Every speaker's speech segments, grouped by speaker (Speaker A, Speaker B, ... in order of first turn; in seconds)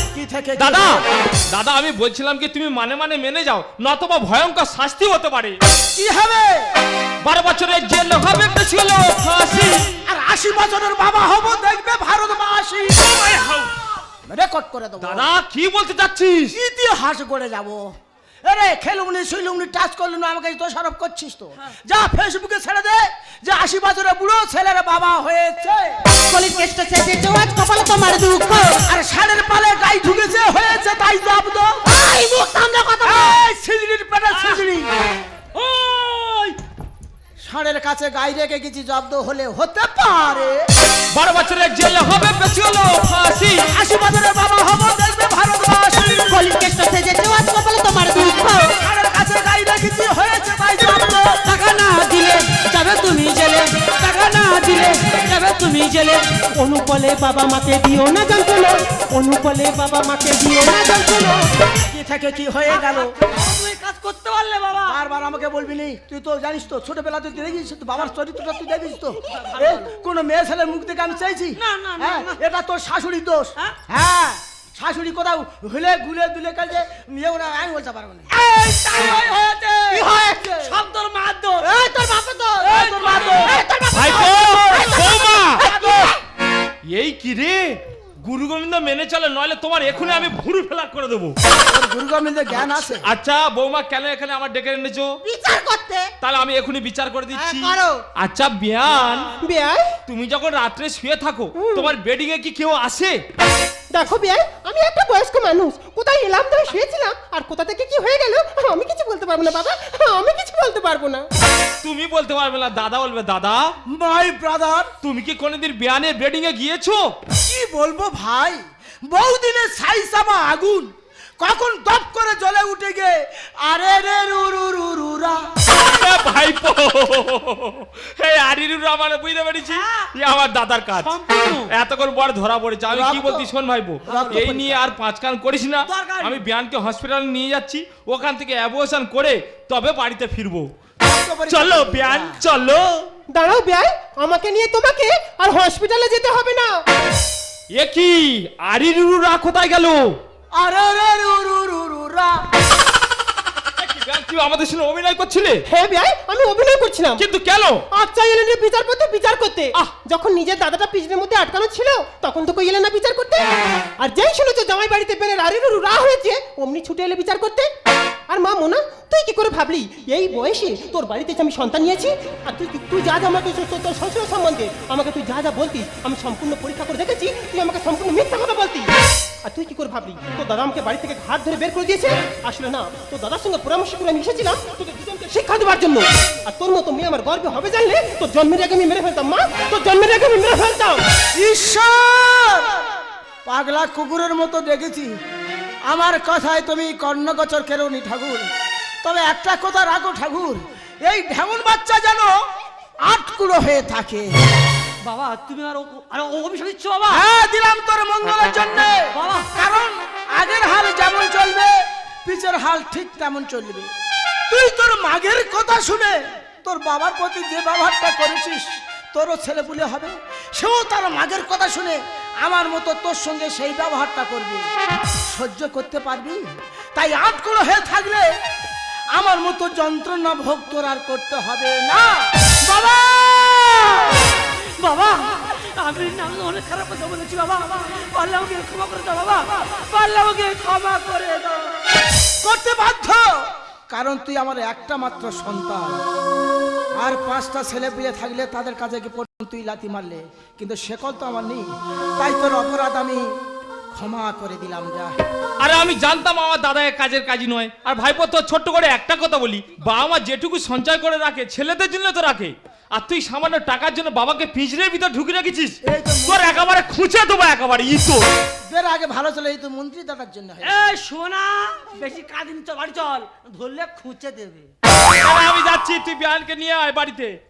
Speaker A: 0.1-1.1, 5.9-6.7, 10.1-13.7, 14.3-15.3, 16.5-17.9, 18.4-26.1, 28.8-31.9, 33.0-34.9, 37.4-40.7, 43.7-46.5, 48.8-51.4, 61.9-63.1, 64.9-78.4, 80.0-80.4, 82.6-85.0, 85.6-86.1, 91.7-93.1, 113.9-114.9, 117.4-125.5, 132.9-133.5, 134.1-134.8, 141.0-142.4, 150.6-152.5, 191.4-195.1, 195.9-198.5, 199.0-202.3, 203.1-204.3, 207.1-213.9, 214.5-224.7, 225.2-226.4, 226.9-228.3, 229.1-234.3, 242.4-246.0, 247.0-253.2, 253.9-255.2, 265.9-266.7, 268.7-270.8
Speaker B: 0.6-5.6, 7.2-9.9, 15.0-16.6, 41.1-43.6, 83.9-85.7, 86.9-91.4, 92.6-95.2, 96.2-99.3, 100.1-103.2, 111.8-113.7, 115.0-117.1, 125.7-131.1, 131.7-140.7, 141.5-143.1, 147.7-150.2, 153.8-155.6, 157.2-157.8, 255.6-268.2, 275.1-277.4
Speaker C: 26.2-28.8, 31.9-33.4, 46.1-48.8, 80.0-80.5, 81.6-82.7, 83.4-86.2, 95.2-96.1, 97.3-98.0
Speaker D: 35.5-36.6, 51.5-56.2, 62.8-65.0, 69.3-70.0, 71.6-72.4, 78.3-81.7, 82.6-83.7, 129.7-130.1, 131.0-131.7, 134.0-134.5, 135.9-136.4, 205.0-207.2, 209.1-209.5, 234.4-241.8, 270.6-274.7
Speaker E: 56.5-61.6, 99.4-100.0, 101.5-101.9, 103.9-111.3, 143.3-146.8, 155.7-157.2, 157.9-167.7, 168.3-178.9, 179.4-191.0